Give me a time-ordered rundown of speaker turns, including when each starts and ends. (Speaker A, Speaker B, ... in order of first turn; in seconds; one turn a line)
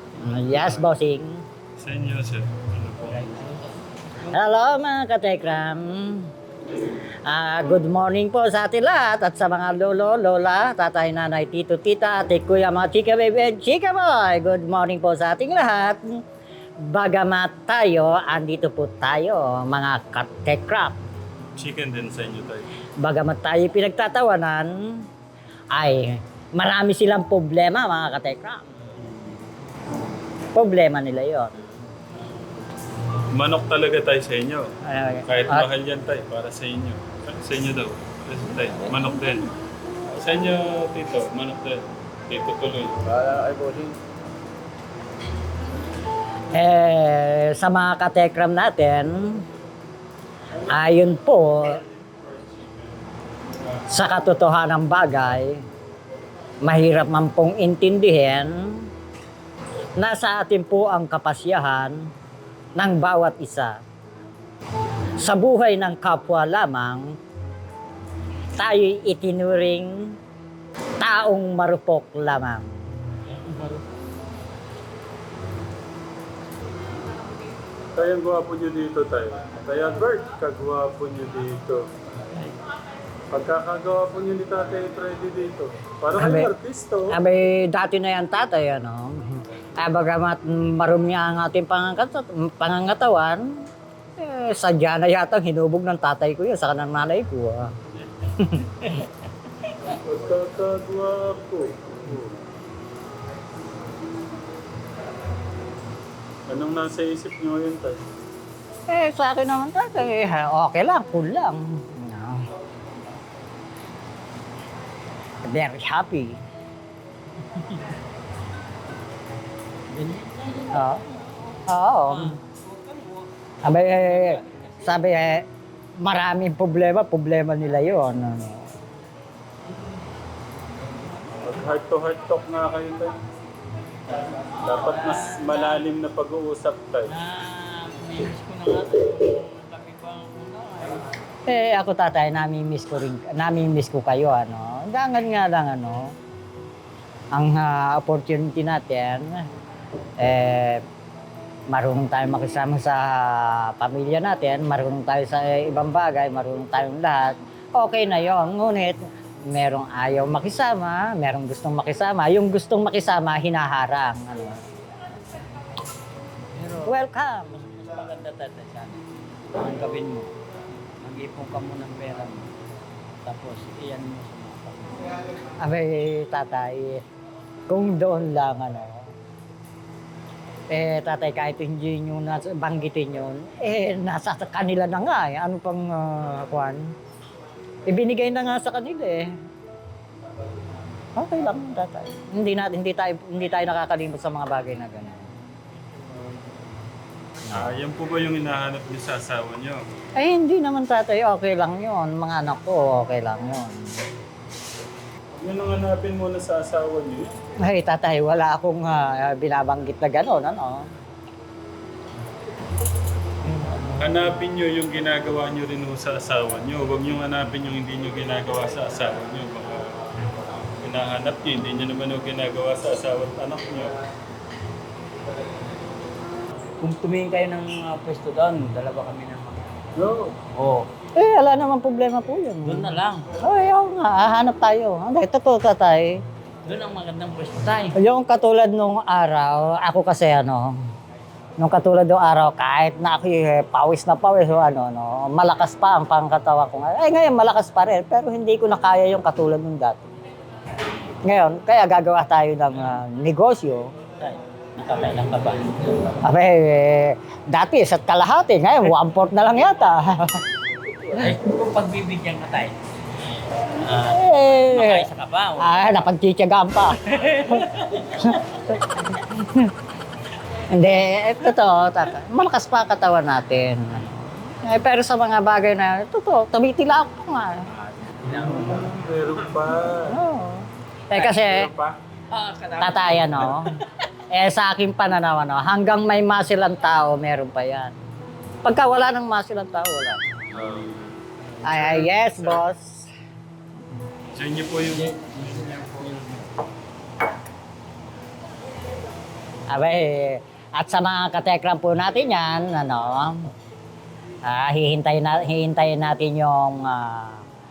Speaker A: 0.2-1.4
Speaker B: 0.5-0.8
Speaker B: 1.8-3.4
Speaker C: 3.2-3.6
Speaker A: 4.3-6.3
Speaker A: 7.2-16.0
Speaker A: 16.8-21.0
Speaker B: 21.6-22.7
Speaker A: 23.0-25.0
Speaker A: 25.7-28.6
Speaker B: 29.1-29.3
Speaker A: 30.5-31.5
Speaker B: 33.3-34.7
Speaker A: 34.9-35.7
Speaker B: 35.2-39.5
Speaker B: 40.1-43.0
Speaker C: 43.2-43.9
Speaker A: 46.5-49.4
Speaker A: 50.7-51.8
Speaker A: 53.9-55.6
Speaker A: 56.6-58.9
Speaker A: 60.0-62.1
Speaker A: 62.8-63.8
Speaker A: 65.2-67.2
Speaker A: 68.6-70.2
Speaker A: 71.0-72.7
Speaker B: 78.0-81.9
Speaker B: 83.3-87.2
Speaker A: 86.2-86.5
Speaker A: 87.1-93.4
Speaker A: 94.2-97.7
Speaker A: 98.3-99.0
Speaker B: 99.8-102.4
Speaker B: 106.5-108.0
Speaker A: 108.9-112.5
Speaker A: 115.4-116.4
Speaker C: 119.9-120.7
Speaker A: 120.7-121.0
Speaker A: 121.7-122.4
Speaker A: 123.6-125.5
Speaker A: 126.0-128.7
Speaker B: 131.4-133.2
Speaker B: 134.6-137.1
Speaker C: 134.8-135.6
Speaker C: 137.1-141.1
Speaker A: 141.5-146.1
Speaker A: 147.3-149.5
Speaker A: 150.2-150.8
Speaker A: 151.7-164.6
Speaker C: 166.5-167.0
Speaker A: 166.8-167.6
Speaker C: 167.5-170.3
Speaker C: 171.0-172.5
Speaker C: 173.2-175.1
Speaker A: 175.6-177.0
Speaker A: 177.7-179.1
Speaker A: 180.7-186.9
Speaker A: 187.8-189.3
Speaker A: 191.2-195.3
Speaker A: 197.5-197.7
Speaker B: 197.5-199.8
Speaker A: 200.2-204.0
Speaker B: 205.4-207.3
Speaker A: 207.6-210.8
Speaker B: 213.9-220.2
Speaker B: 220.8-224.0
Speaker C: 226.8-229.7
Speaker B: 230.0-230.4
Speaker C: 230.5-230.9
Speaker A: 231.2-236.2
Speaker C: 232.6-233.3
Speaker C: 236.6-238.0
Speaker A: 237.9-240.8
Speaker A: 241.6-250.1
Speaker A: 251.2-253.9
Speaker C: 254.2-256.1
Speaker A: 256.2-260.4
Speaker C: 260.9-262.8
Speaker C: 263.7-265.9
Speaker A: 263.9-269.7
Speaker C: 267.1-268.4
Speaker A: 270.7-277.7
Speaker C: 277.7-278.9
Speaker B: 278.5-280.2
Speaker A: 280.1-281.7
Speaker B: 281.1-282.0
Speaker C: 282.3-283.6
Speaker A: 282.8-283.7
Speaker A: 284.3-287.9
Speaker A: 288.6-290.2
Speaker B: 290.5-292.6
Speaker A: 291.6-293.1
Speaker B: 294.3-295.7
Speaker C: 295.0-296.5
Speaker A: 299.7-303.5
Speaker A: 304.4-307.4